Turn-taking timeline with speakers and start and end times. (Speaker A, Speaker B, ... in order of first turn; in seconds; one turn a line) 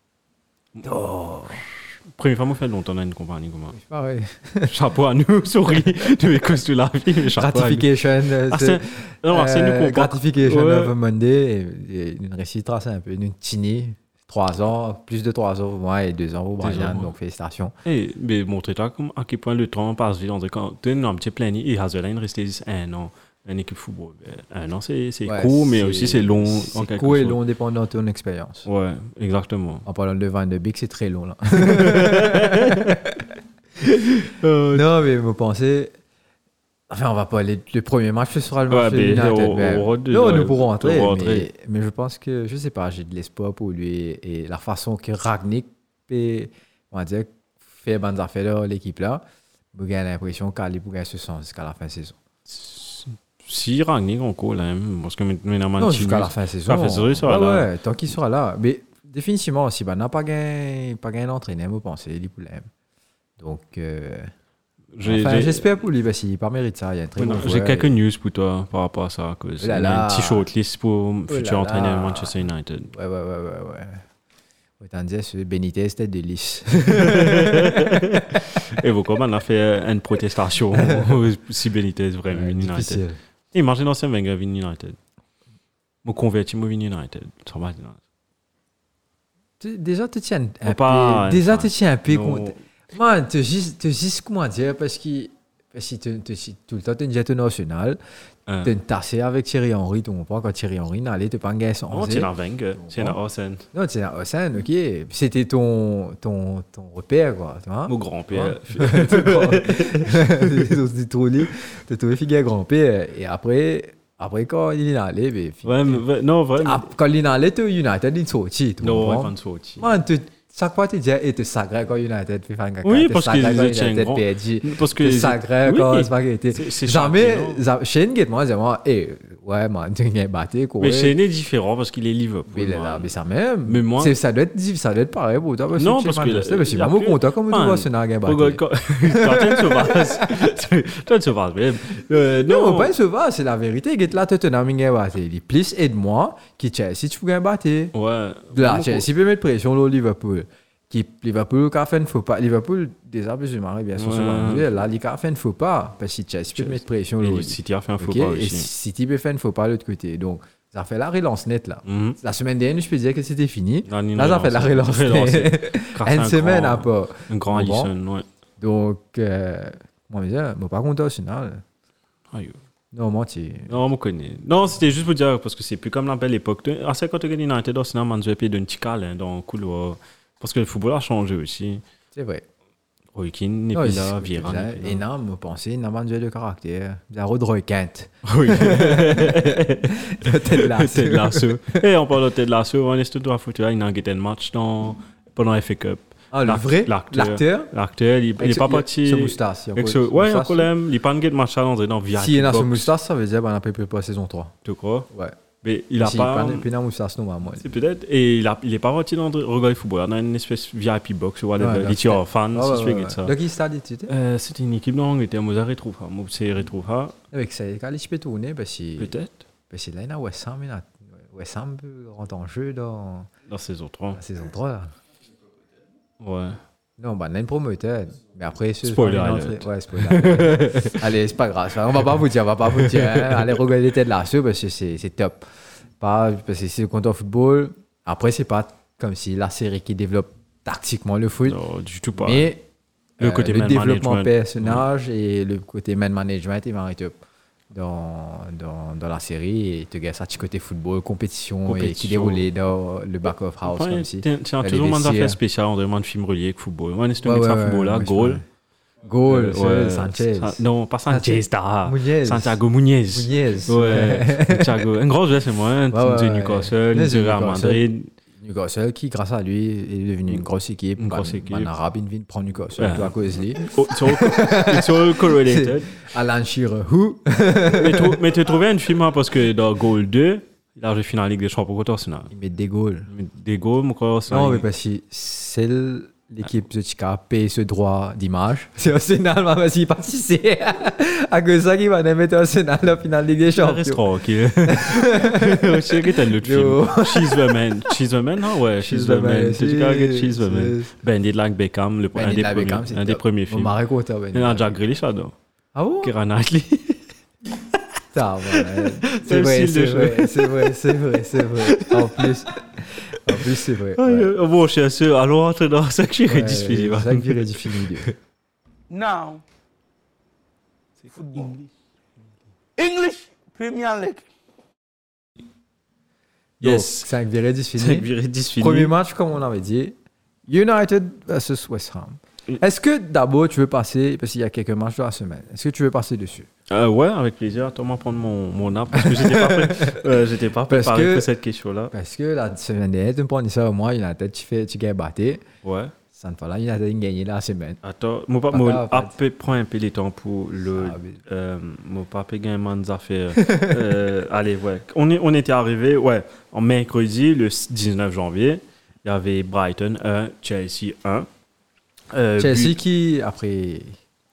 Speaker A: 0.8-3.8
Speaker B: 3.7-4.7
Speaker A: 4.7-7.9
Speaker B: 7.4-17.8
Speaker A: 8.5-10.9
Speaker A: 16.6-17.1
Speaker A: 17.9-27.4
Speaker B: 25.3-28.7
Speaker A: 28.6-29.9
Speaker B: 29.9-33.3
Speaker A: 31.6-33.0
Speaker A: 33.8-34.9
Speaker B: 34.7-35.9
Speaker B: 36.9-49.2
Speaker A: 38.7-41.5
Speaker B: 49.7-52.2
Speaker A: 52.5-57.7
Speaker B: 55.8-62.7
Speaker B: 63.4-64.3
Speaker A: 65.0-65.8
Speaker B: 65.0-67.9
Speaker A: 67.2-72.9
Speaker B: 69.6-70.5
Speaker B: 71.3-74.0
Speaker B: 74.8-78.6
Speaker A: 76.9-85.0
Speaker B: 80.8-81.1
Speaker B: 82.3-83.2
Speaker A: 86.0-88.0
Speaker B: 89.6-98.0
Speaker A: 90.7-92.6
Speaker A: 98.5-98.7
Speaker B: 98.6-103.2
Speaker A: 101.9-103.7
Speaker B: 103.7-116.0
Speaker A: 107.9-110.8
Speaker A: 115.7-116.9
Speaker B: 116.6-131.2
Speaker A: 118.8-119.9
Speaker A: 122.8-127.6
Speaker A: 130.8-133.1
Speaker B: 132.5-140.5
Speaker A: 133.7-134.2
Speaker A: 135.8-143.0
Speaker B: 142.3-147.9
Speaker A: 147.9-149.1
Speaker B: 148.5-167.9
Speaker A: 154.0-154.8
Speaker A: 156.6-158.7
Speaker A: 161.9-162.2
Speaker A: 163.9-168.3
Speaker B: 168.6-171.6
Speaker A: 172.3-172.6
Speaker B: 172.9-173.7
Speaker A: 173.7-181.8
Speaker B: 182.1-182.4
Speaker A: 183.1-185.1
Speaker B: 183.7-191.9
Speaker A: 188.3-202.9
Speaker B: 196.3-197.7
Speaker B: 198.4-200.7
Speaker B: 202.1-204.5
Speaker A: 204.7-205.1
Speaker B: 205.1-205.4
Speaker A: 205.6-206.7
Speaker B: 206.0-207.7
Speaker A: 207.6-213.3
Speaker B: 211.6-214.1
Speaker A: 214.1-217.2
Speaker B: 217.3-219.1
Speaker A: 219.0-219.4
Speaker B: 219.7-223.3
Speaker A: 223.5-224.2
Speaker B: 224.2-224.9
Speaker A: 226.2-226.6
Speaker B: 227.0-235.5
Speaker A: 228.8-231.1
Speaker A: 232.7-233.6
Speaker B: 236.0-241.6
Speaker A: 241.5-242.5
Speaker B: 242.2-242.7
Speaker A: 243.2-244.9
Speaker B: 243.2-247.1
Speaker B: 247.7-255.4
Speaker A: 251.7-252.4
Speaker A: 253.7-258.4
Speaker B: 257.2-258.4
Speaker B: 259.0-262.6
Speaker A: 259.3-268.1
Speaker B: 263.1-264.7
Speaker B: 265.9-267.8
Speaker B: 268.4-278.2
Speaker A: 271.0-271.7
Speaker A: 272.8-275.9
Speaker A: 277.6-282.3
Speaker B: 282.3-283.1
Speaker A: 283.1-284.6
Speaker B: 284.3-294.0
Speaker A: 293.5-303.8
Speaker B: 294.7-297.9
Speaker B: 298.8-300.9
Speaker B: 302.1-304.8
Speaker A: 304.3-305.4
Speaker B: 305.8-306.1
Speaker A: 306.0-307.1
Speaker B: 308.1-314.3
Speaker A: 308.5-312.3
Speaker A: 313.3-318.1
Speaker B: 316.3-318.1
Speaker C: 318.9-319.4
Speaker C: 321.1-321.6
Speaker C: 322.8-324.2
Speaker B: 326.6-330.0
Speaker A: 326.6-327.1
Speaker A: 327.8-328.9
Speaker B: 330.5-336.5
Speaker A: 336.7-341.9
Speaker B: 338.9-340.0
Speaker B: 340.7-341.3
Speaker B: 341.9-345.4
Speaker A: 345.6-345.9
Speaker B: 346.1-347.8
Speaker A: 347.8-361.3
Speaker B: 348.5-349.2
Speaker B: 350.8-351.2
Speaker A: 362.1-362.8
Speaker B: 362.4-364.0